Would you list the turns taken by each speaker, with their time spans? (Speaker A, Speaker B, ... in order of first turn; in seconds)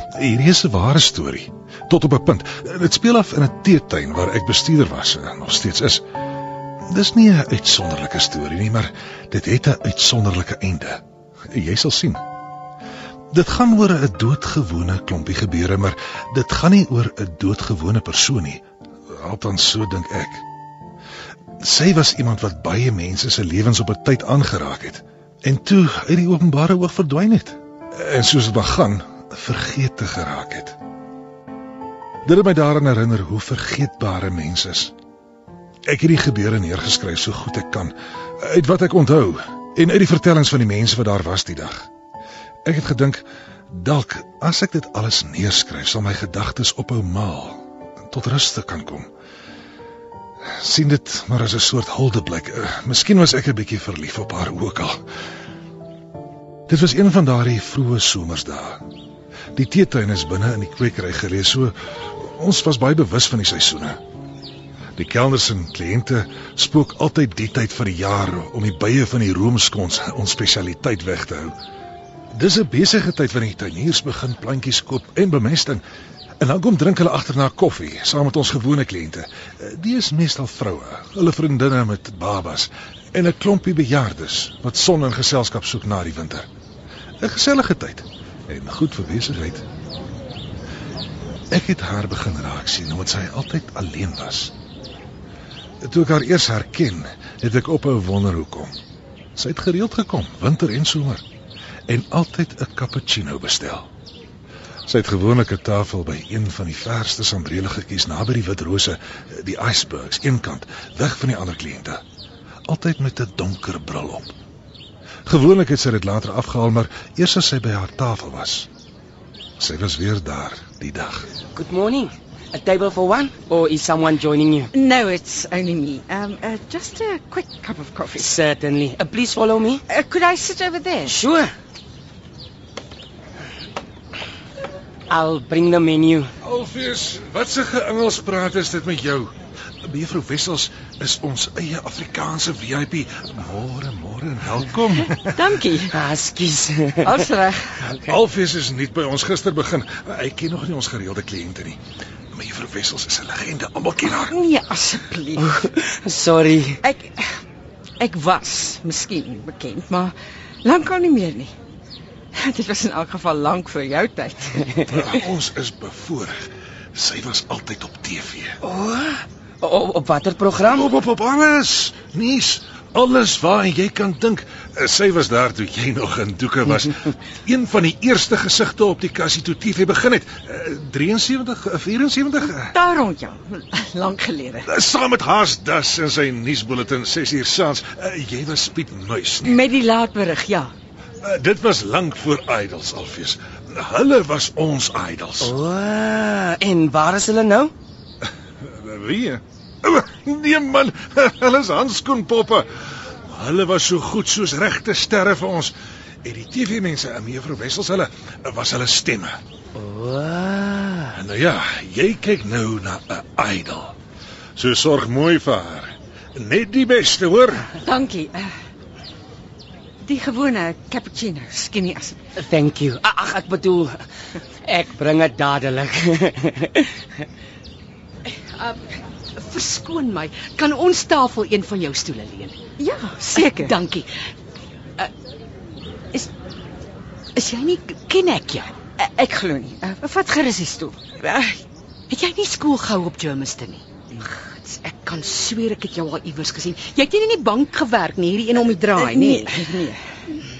Speaker A: 0.1-6.0, 6.9-12.2, 13.3-20.4, 21.6-30.8, 32.2-34.9, 35.9-41.9, 42.6-49.1, 50.5-55.0, 56.7-58.8, 59.5-64.0, 65.0-71.5, 72.3-75.8, 76.4-86.5, 87.2-89.6, 91.5-94.5, 95.8-98.8, 99.4-101.2, 101.9-103.9, 104.9-112.0, 112.7-114.3, 115.3-118.7, 119.6-121.3, 136.4-139.3, 139.8-145.4, 148.0-151.8, 152.3-154.4, 164.9-168.6, 170.7-182.7, 184.7-189.6, 191.2-195.5, 198.6-202.7, 203.3-205.7, 206.2-209.4, 211.1-213.9, 214.6-217.7
Speaker B: 121.5-124.7, 128.2-129.8, 131.1-131.5, 135.1-136.3, 145.9-147.3, 147.8-148.2, 155.4-156.8, 168.6-170.9, 195.4-197.7, 209.8-211.1, 222.4-224.0, 224.7-226.9
Speaker C: 124.7-128.3, 129.9-131.2, 145.3-146.0, 147.0-147.8, 154.2-155.7, 156.8-157.4, 158.0-161.5, 162.3-164.7, 182.7-184.7, 189.4-190.7, 217.8-218.5, 220.0-222.2, 232.8-233.8, 239.0-241.0, 248.7-250.0
Speaker D: 228.6-232.6, 233.3-234.1, 237.4-238.7, 241.2-249.6